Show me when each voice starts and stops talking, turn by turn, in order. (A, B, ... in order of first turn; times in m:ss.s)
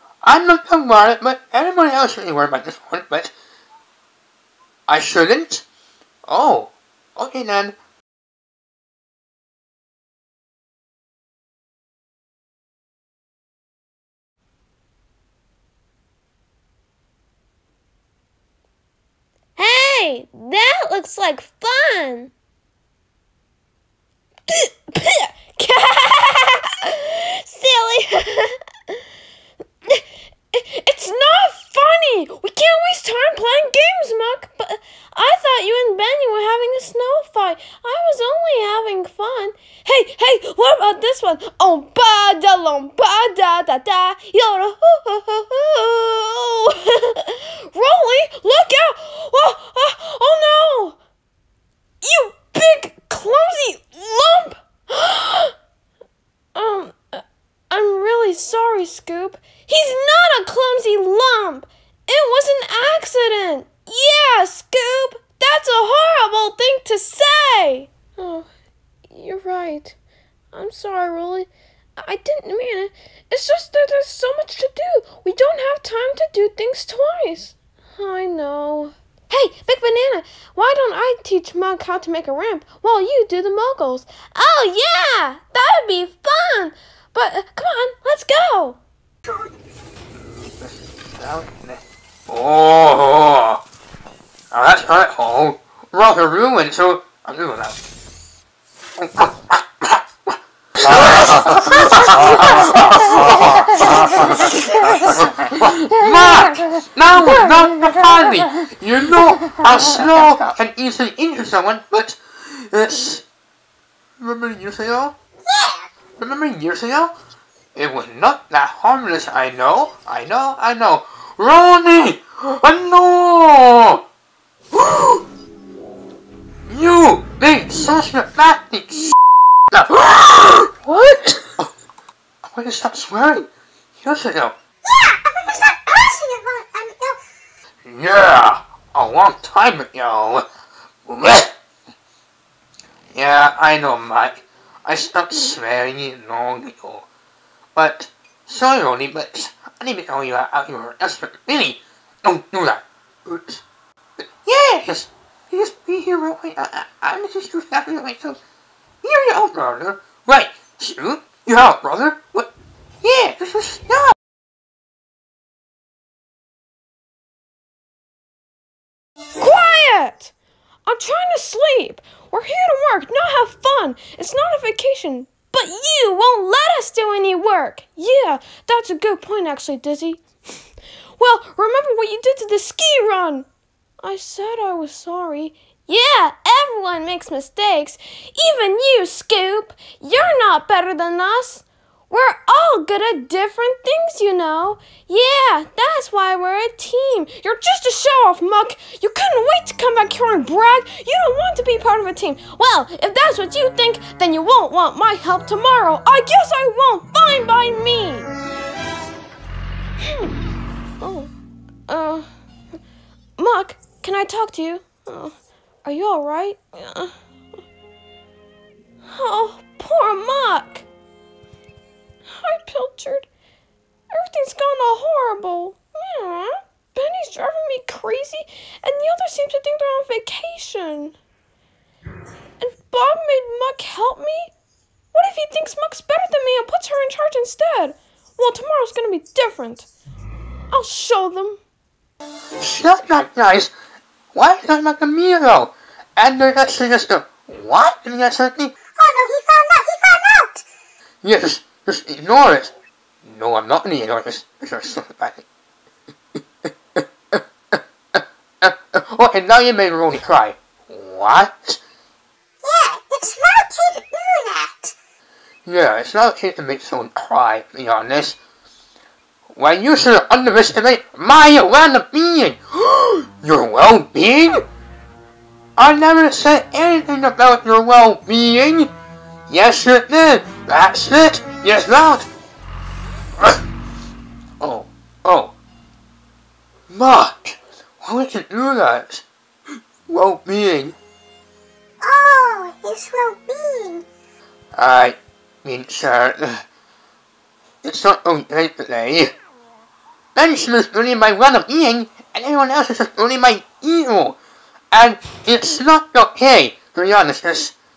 0:00.2-0:03.3 A
0:04.9-0:05.6 A
0:06.2-0:07.8 A
0:19.6-0:22.3 B
0:24.5-0:28.6 B
0:30.5-0:51.0 B
0:52.0-0:55.5 B
0:56.5-1:08.5 B
1:09.1-1:09.9 B
1:10.5-1:28.8 B
1:30.2-1:33.6 A
1:34.5-1:37.8 A
1:39.0-1:53.2 A
1:54.2-1:55.2 A
1:56.2-1:57.1 A
1:57.7-2:04.0 A
2:04.7-2:05.2 A
2:06.7-2:09.1 A
2:09.7-2:11.7 A
2:12.4-2:13.5 A
2:14.0-2:14.6 A
2:14.9-2:17.2 C
2:17.8-2:20.4 A
2:21.0-2:21.5 A
2:23.1-2:27.1 A
2:27.7-2:33.6 A
2:34.2-2:38.4 A
2:39.0-2:42.5 A
2:43.0-2:44.1 A
2:49.4-2:50.3 B
2:50.9-3:00.2 B
3:01.2-3:03.5 B
3:04.0-3:28.3 B
3:30.0-3:30.3 B
3:31.0-3:31.3 B
3:31.9-3:32.3 B
3:33.4-3:35.3 B
3:35.8-3:37.1 B
3:39.1-3:40.8 B
3:42.3-3:43.3 B
3:44.1-3:51.2 B
3:52.6-3:54.5 B
3:55.1-3:59.9 B
4:00.7-4:01.6 B
4:02.6-4:03.7 A
4:04.3-4:08.7 A
4:09.0-4:10.6 C
4:11.2-4:12.7 A
4:13.2-4:15.4 A
4:16.4-4:21.8 A
4:22.6-4:24.9 C
4:25.6-4:28.4 A
4:29.5-4:34.6 A
4:35.8-4:38.9 A
4:39.5-4:42.3 A
4:44.6-4:45.5 A
4:46.9-4:49.2 A
4:50.1-4:51.0 A
4:52.0-4:54.0 C
4:54.7-4:56.6 A
4:57.8-4:59.3 A
5:00.3-5:04.4 A
5:04.9-5:07.7 A